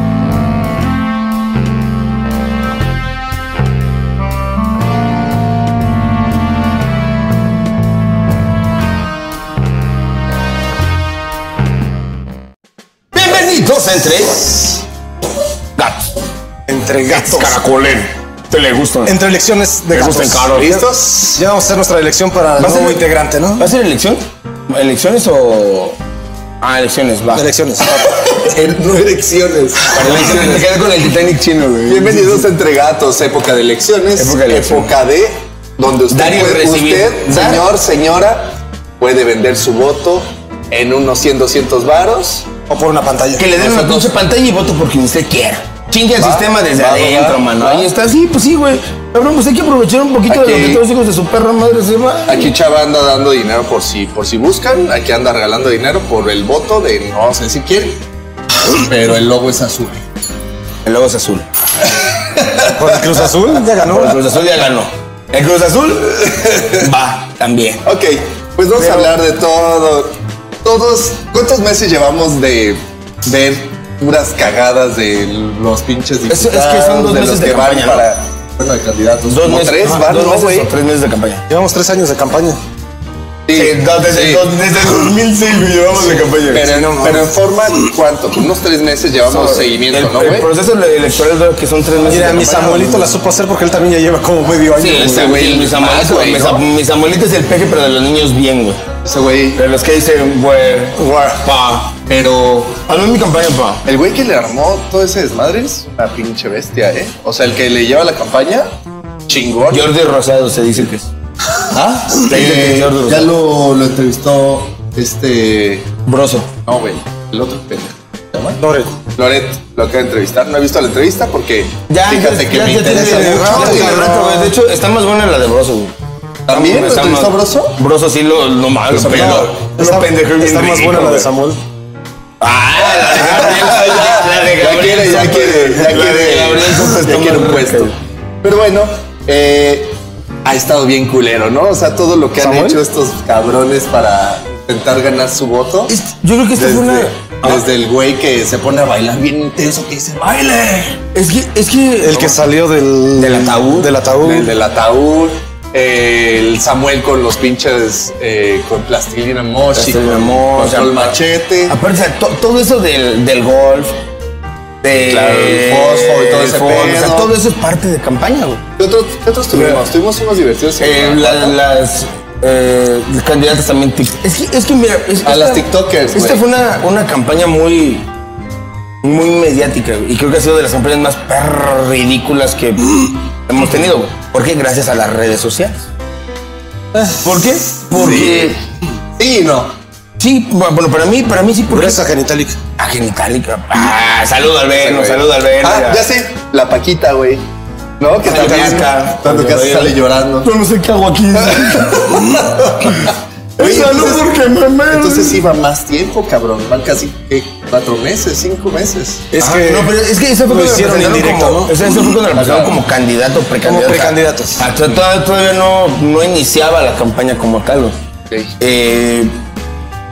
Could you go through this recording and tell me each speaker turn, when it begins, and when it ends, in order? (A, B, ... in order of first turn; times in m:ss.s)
0:13.1-0:14.8 A
0:15.8-0:16.1 A
0:16.7-0:17.6 B
0:17.1-0:19.2 A
0:19.0-0:23.7 B
0:19.9-0:20.7 A
0:20.5-0:21.4 C
0:22.6-0:23.0 A
0:23.6-0:26.0 A
0:26.6-0:27.5 A
0:27.3-0:28.2 B
0:28.2-0:30.7 C
0:29.8-0:32.4 A
0:31.8-0:42.5 C
0:34.2-0:34.9 A
0:36.1-0:37.6 A
0:42.7-0:43.5 B
0:43.4-0:52.5 A
0:43.6-0:44.1 C
0:46.2-0:47.9 C
0:50.3-0:50.8 C
0:52.3-0:58.0 C
0:58.7-1:00.0 C
1:00.8-1:01.5 A
1:02.2-1:03.3 C
1:02.7-1:04.2 B
1:03.8-1:07.8 A
1:07.8-1:10.1 C
1:08.8-1:09.1 A
1:10.6-1:20.7 C
1:16.3-1:18.0 A
1:19.3-1:21.4 A
1:21.5-1:22.6 B
1:23.5-1:24.5 C
1:23.5-1:26.8 A
1:26.0-1:27.2 B
1:26.5-1:30.5 C
1:29.3-1:33.1 A
1:32.0-1:35.4 B
1:34.7-1:38.8 A
1:35.0-1:36.6 C
1:39.0-1:39.6 C
1:39.6-1:42.0 A
1:42.1-1:42.8 C
1:42.8-1:43.8 A
1:43.8-1:48.6 C
1:49.3-1:49.8 C
1:49.7-1:51.1 A
1:51.7-1:55.9 C
1:52.2-1:53.3 A
1:56.0-1:56.5 A
1:56.6-1:58.6 C
1:58.6-1:59.0 B
1:59.1-2:04.0 C
2:01.9-2:05.9 A
2:02.8-2:04.6 B
2:06.4-2:07.8 C
2:06.5-2:11.3 A
2:08.9-2:09.3 C
2:09.1-2:11.6 B
2:12.4-2:17.9 A
2:12.9-2:25.9 C
2:22.4-2:22.8 B
2:25.9-2:27.6 A
2:26.6-2:31.0 C
2:31.1-2:32.3 A
2:32.0-2:34.5 B
2:33.2-2:33.9 A
2:34.2-2:41.8 C
2:39.7-2:41.1 A
2:41.7-2:43.9 A
2:44.8-2:48.6 A
2:45.1-2:47.3 C
2:48.8-2:51.6 C
2:49.5-2:49.8 A
2:50.8-2:58.0 A
2:55.2-2:56.4 C
2:59.0-3:05.9 A
3:07.1-3:08.6 A
3:08.0-3:08.5 C
3:09.2-3:09.7 C
3:10.2-3:12.0 A
3:11.7-3:12.6 B
3:12.8-3:16.0 A
3:14.8-3:17.4 C
3:18.0-3:20.5 C
3:18.2-3:25.5 A
3:22.2-3:22.6 C
3:23.6-3:24.2 C
3:24.9-3:29.3 C
3:29.3-3:31.8 B
3:29.4-3:37.9 A
3:32.3-3:32.8 C
3:33.6-3:34.6 B
3:38.6-3:39.3 A